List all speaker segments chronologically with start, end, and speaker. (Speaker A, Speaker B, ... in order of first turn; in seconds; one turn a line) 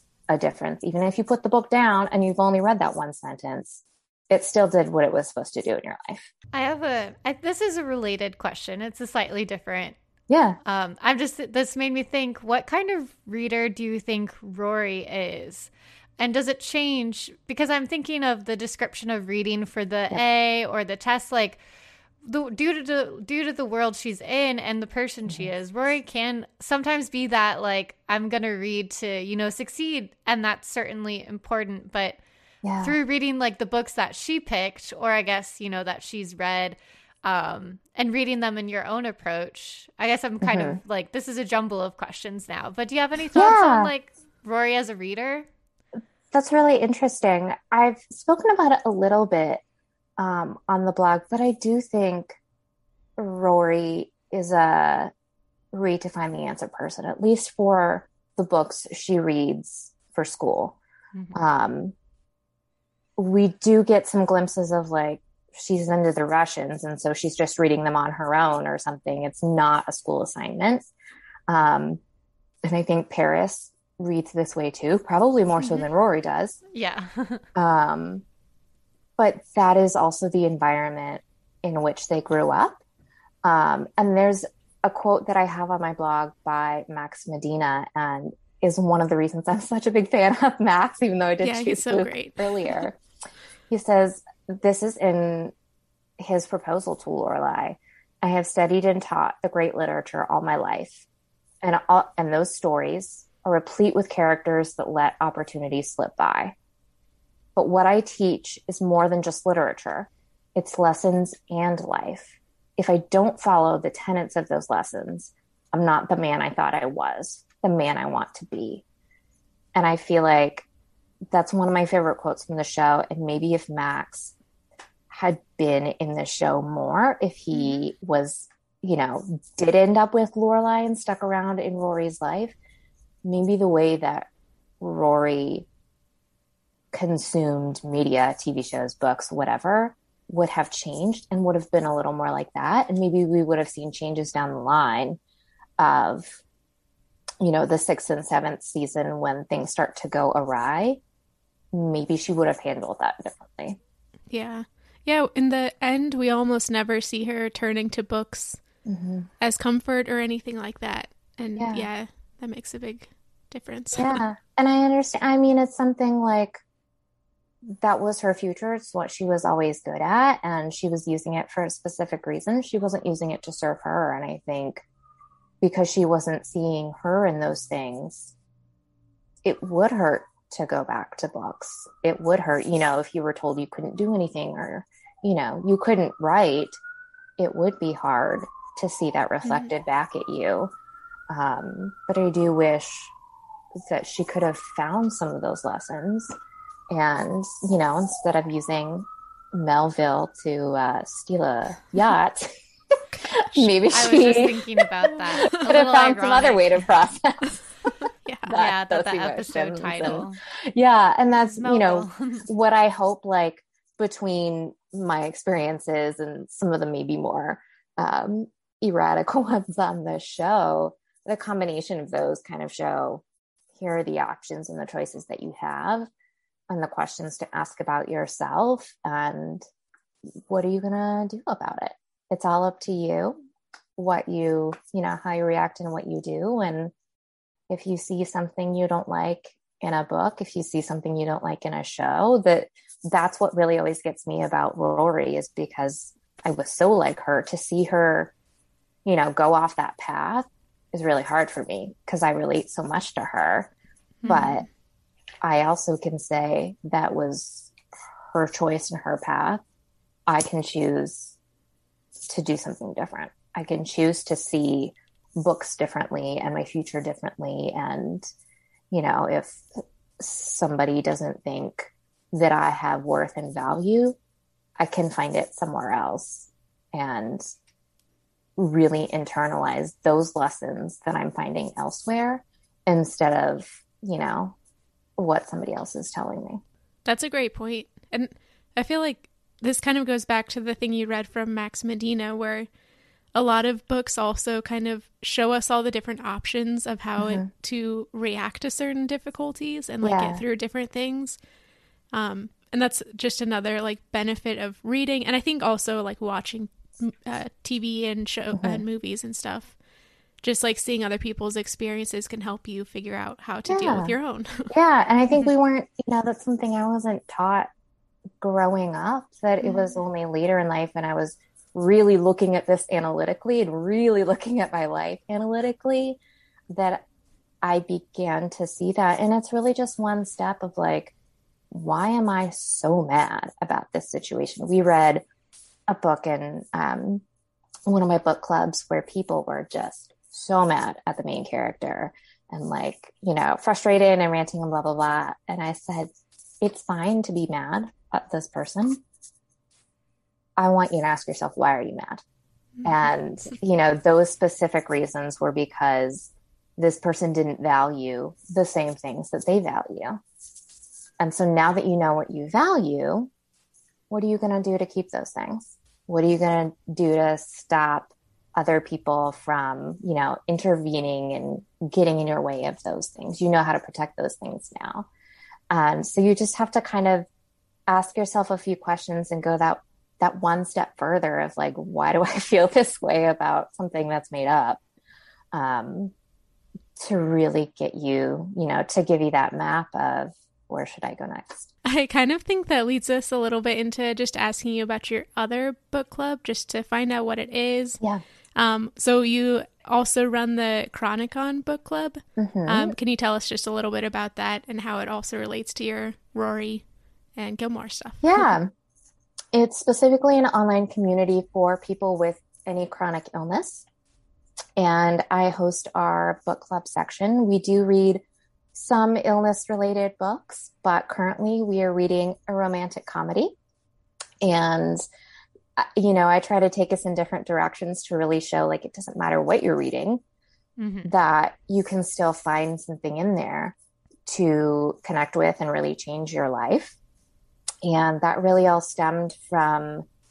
Speaker A: 0.3-6.3
Speaker B: 6.5-10.0
Speaker A: 10.3-10.6
Speaker B: 10.7-21.6
Speaker B: 22.2-32.2
Speaker A: 32.6-33.0
Speaker B: 32.8-45.5
Speaker A: 40.4-40.8
Speaker A: 43.4-43.9
Speaker A: 46.3-49.6
Speaker A: 50.2-52.4
Speaker A: 53.2-55.1
Speaker A: 55.7-60.8
Speaker B: 61.1-61.4
Speaker A: 61.3-62.0
Speaker A: 63.2-70.9
Speaker A: 71.5-72.0
Speaker A: 72.6-76.6
Speaker B: 76.7-77.4
Speaker A: 77.5-78.2
Speaker A: 79.2-82.8
Speaker A: 83.4-93.0
Speaker C: 91.4-92.8
Speaker A: 93.7-95.5
Speaker A: 96.2-101.0
Speaker A: 101.6-106.5
Speaker A: 107.6-118.8
Speaker A: 119.8-120.7
Speaker A: 121.3-124.3
Speaker A: 125.1-132.6
Speaker B: 127.5-127.9
Speaker A: 133.2-134.3
Speaker A: 134.8-135.7
Speaker A: 136.9-145.2
Speaker A: 145.8-146.4
Speaker A: 147.4-151.0
Speaker A: 151.7-153.8
Speaker C: 154.3-158.6
Speaker A: 158.9-159.3
Speaker C: 159.4-164.2
Speaker A: 161.6-161.9
Speaker A: 163.9-166.6
Speaker A: 167.7-174.8
Speaker A: 175.6-178.3
Speaker A: 179.4-186.8
Speaker A: 187.4-190.7
Speaker C: 189.4-189.7
Speaker A: 191.3-193.1
Speaker A: 193.8-196.3
Speaker A: 196.9-202.5
Speaker A: 203.3-207.7
Speaker B: 203.9-206.8
Speaker C: 208.3-208.6
Speaker A: 208.5-223.2
Speaker B: 208.6-210.4
Speaker B: 211.6-212.4
Speaker A: 223.7-226.1
Speaker A: 226.7-229.6
Speaker A: 230.5-233.4
Speaker A: 234.0-236.9
Speaker A: 237.7-248.3
Speaker A: 249.1-253.7
Speaker C: 254.2-254.7
Speaker A: 254.3-254.7
Speaker A: 255.4-257.7
Speaker A: 258.3-259.6
Speaker A: 260.3-261.4
Speaker A: 262.2-268.3
Speaker A: 268.9-269.6
Speaker A: 270.2-274.2
Speaker A: 274.8-277.4
Speaker A: 278.6-284.6
Speaker A: 285.2-286.6
Speaker C: 287.1-292.7
Speaker C: 293.4-301.4
Speaker A: 297.2-297.5
Speaker A: 300.0-300.4
Speaker C: 302.1-309.8
Speaker A: 308.6-308.9
Speaker C: 310.4-314.7
Speaker A: 313.7-314.2
Speaker A: 314.7-317.7
Speaker A: 318.4-326.2
Speaker C: 319.6-319.9
Speaker A: 326.7-327.0
Speaker A: 327.6-331.1
Speaker A: 331.7-335.2
Speaker A: 335.9-337.2
Speaker A: 337.9-349.0
Speaker A: 350.6-352.2
Speaker A: 352.8-360.2
Speaker A: 361.2-363.3
Speaker A: 364.1-375.1
Speaker A: 375.7-377.3
Speaker A: 377.9-384.8
Speaker A: 385.5-386.1
Speaker A: 387.0-391.7
Speaker C: 391.9-398.0
Speaker C: 398.6-406.8
Speaker A: 402.4-402.9
Speaker C: 407.4-408.5
Speaker A: 408.2-408.7
Speaker A: 409.5-413.9
Speaker A: 414.8-418.2
Speaker A: 418.7-423.6
Speaker A: 424.4-425.0
Speaker A: 425.8-430.2
Speaker B: 430.8-431.1
Speaker A: 431.0-433.8
Speaker A: 434.3-437.0
Speaker A: 437.8-440.1